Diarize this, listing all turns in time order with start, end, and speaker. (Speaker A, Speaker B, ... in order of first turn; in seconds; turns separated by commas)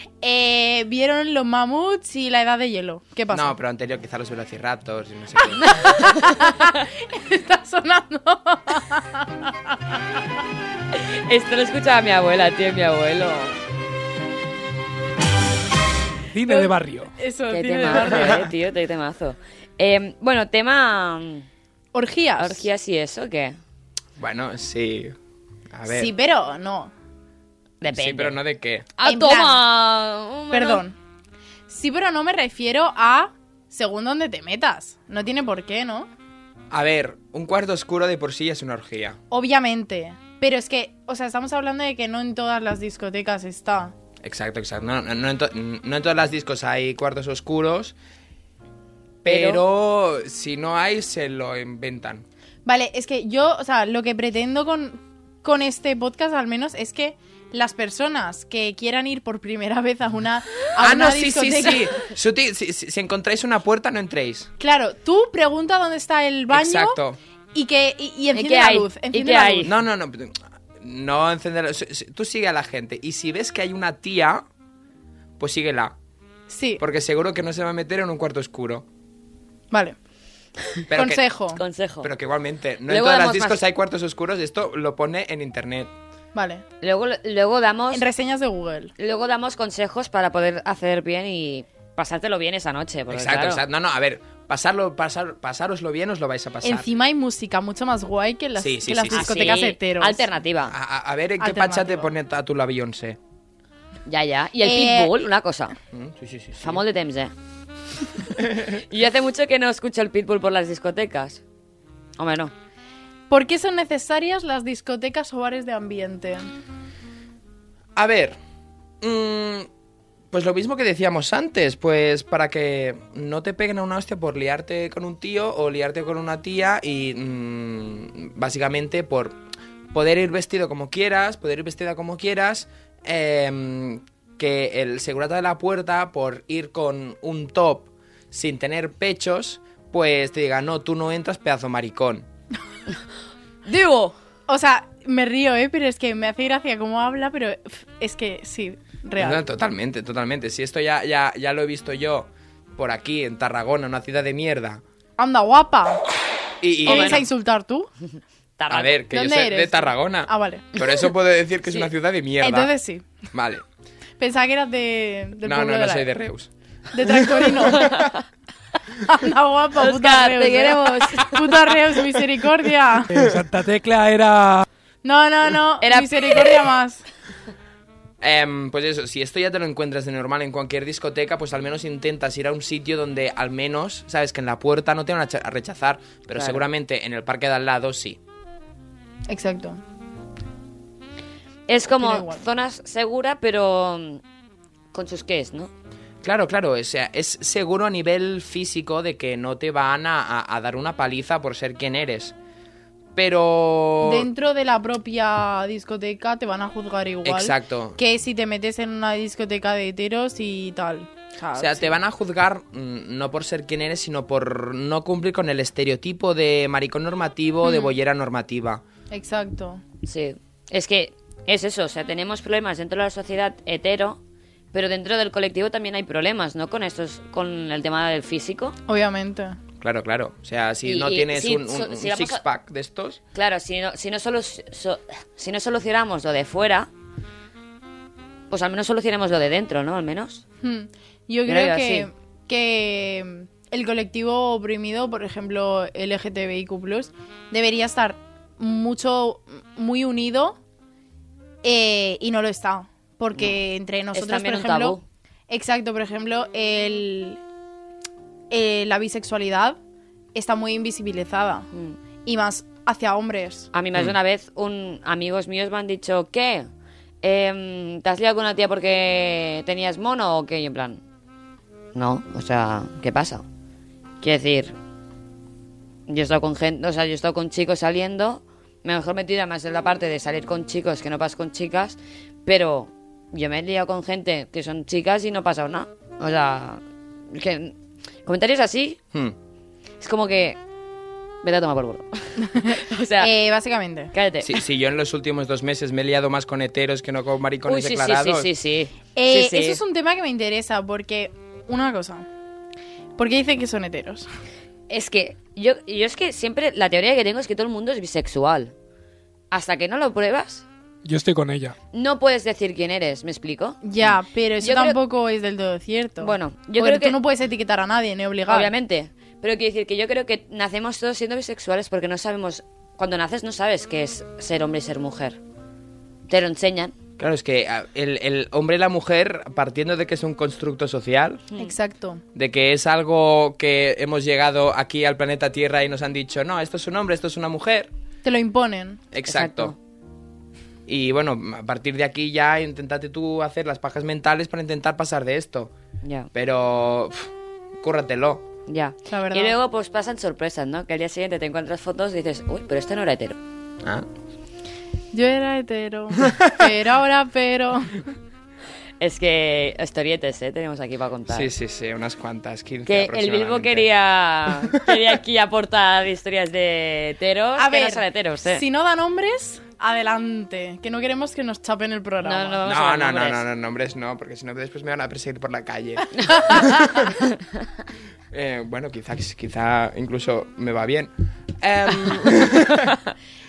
Speaker A: 0.2-3.5, Speaker B: 3.3-5.7, Speaker A: 5.5-9.8, Speaker C: 5.7-6.3, Speaker C: 10.9-13.6, Speaker D: 16.3-17.1, Speaker A: 16.4-18.5, Speaker C: 17.5-21.5, Speaker B: 18.1-18.4, Speaker A: 21.9-22.6, Speaker C: 22.4-23.6, Speaker B: 24.2-25.1, Speaker B: 25.7-26.1, Speaker A: 25.9-26.9, Speaker C: 27.8-28.4, Speaker B: 27.9-28.9, Speaker C: 29.0-30.8, Speaker A: 29.0-29.6, Speaker A: 30.5-31.0, Speaker A: 31.7-36.1, Speaker B: 36.7-39.2, Speaker A: 39.3-43.9, Speaker B: 44.2-48.0, Speaker B: 49.2-52.2, Speaker C: 49.2-49.6, Speaker A: 52.7-62.0, Speaker B: 60.8-64.5, Speaker A: 64.6-67.0, Speaker B: 66.5-67.2, Speaker A: 67.5-69.7, Speaker C: 68.3-69.7, Speaker B: 69.6-74.5, Speaker B: 75.4-76.0, Speaker A: 76.5-76.8, Speaker B: 76.8-78.8, Speaker A: 79.7-80.0, Speaker B: 80.9-81.2, Speaker A: 80.9-81.6, Speaker C: 81.6-82.1, Speaker B: 82.0-85.9, Speaker C: 82.9-83.6, Speaker A: 86.3-86.6, Speaker C: 86.8-88.0, Speaker A: 87.9-88.9, Speaker C: 89.0-93.6, Speaker B: 93.1-96.9, Speaker A: 96.6-100.3, Speaker B: 98.6-99.6, Speaker C: 99.1-100.8, Speaker B: 100.7-103.2, Speaker A: 101.4-102.1, Speaker C: 104.1-105.8, Speaker A: 104.6-105.2, Speaker B: 105.9-106.8, Speaker C: 106.6-107.3, Speaker C: 108.2-111.4, Speaker B: 108.4-108.7, Speaker C: 112.2-112.5, Speaker A: 113.3-116.5, Speaker B: 118.0-118.4, Speaker B: 119.0-119.7, Speaker B: 120.3-129.4, Speaker B: 129.9-142.3, Speaker C: 143.7-144.1, Speaker A: 144.5-149.4, Speaker B: 149.2-154.8, Speaker A: 155.2-156.0, Speaker B: 156.6-157.2, Speaker C: 156.8-157.2, Speaker A: 156.8-157.9, Speaker C: 158.6-158.9, Speaker B: 158.7-162.7, Speaker A: 159.1-160.7, Speaker A: 162.4-163.1, Speaker B: 163.3-163.6, Speaker A: 164.2-166.1, Speaker B: 165.4-166.5, Speaker A: 166.9-168.1, Speaker B: 167.1-168.1, Speaker C: 167.8-168.2, Speaker A: 169.0-173.1, Speaker C: 169.8-171.7, Speaker D: 173.1-174.7, Speaker A: 175.0-177.1, Speaker C: 175.8-176.7, Speaker B: 178.2-188.2, Speaker C: 186.3-186.6, Speaker A: 189.3-189.8, Speaker C: 191.7-194.2, Speaker A: 191.9-192.4, Speaker C: 194.9-195.7, Speaker B: 196.2-202.3, Speaker B: 203.2-204.3, Speaker A: 204.0-211.9, Speaker B: 207.2-208.0, Speaker B: 211.6-218.8, Speaker A: 217.7-217.9, Speaker A: 219.1-219.8, Speaker C: 220.0-224.2, Speaker C: 224.7-228.8, Speaker A: 228.9-229.6, Speaker B: 229.8-233.2, Speaker C: 230.8-232.4, Speaker C: 233.3-236.9, Speaker C: 238.5-240.4, Speaker A: 240.6-250.6, Speaker C: 241.5-242.1, Speaker A: 251.6-255.0, Speaker C: 254.1-255.0, Speaker A: 255.5-257.4, Speaker A: 258.5-259.8, Speaker A: 260.4-261.7, Speaker A: 262.2-263.7, Speaker C: 263.7-266.7, Speaker C: 267.2-271.0, Speaker C: 271.9-273.4, Speaker C: 274.2-274.8, Speaker C: 276.1-287.7, Speaker C: 288.3-289.0, Speaker C: 290.0-290.6, Speaker C: 291.4-293.3, Speaker A: 292.6-294.1, Speaker C: 294.1-294.6, Speaker B: 294.4-298.5, Speaker C: 297.7-299.8, Speaker A: 299.2-302.3, Speaker A: 303.2-304.3, Speaker C: 304.9-308.7, Speaker C: 309.5-310.6, Speaker D: 311.0-311.8, Speaker C: 311.9-313.8, Speaker A: 313.8-318.7, Speaker C: 314.6-315.0, Speaker C: 316.2-317.2, Speaker C: 318.5-325.4, Speaker C: 326.3-326.9, Speaker B: 327.2-331.4, Speaker A: 331.6-332.2, Speaker B: 332.4-337.9, Speaker A: 338.2-339.0, Speaker B: 339.1-339.8, Speaker C: 339.3-339.8, Speaker B: 340.9-345.7, Speaker C: 346.0-346.3, Speaker B: 346.3-348.5, Speaker C: 348.7-353.4, Speaker A: 349.1-349.6, Speaker A: 355.1-358.1, Speaker B: 356.2-356.7, Speaker C: 359.0-361.5, Speaker B: 361.3-363.9, Speaker C: 362.9-368.6, Speaker A: 367.6-372.6, Speaker C: 372.2-373.4, Speaker B: 372.6-377.1, Speaker C: 376.2-376.8, Speaker B: 378.3-383.0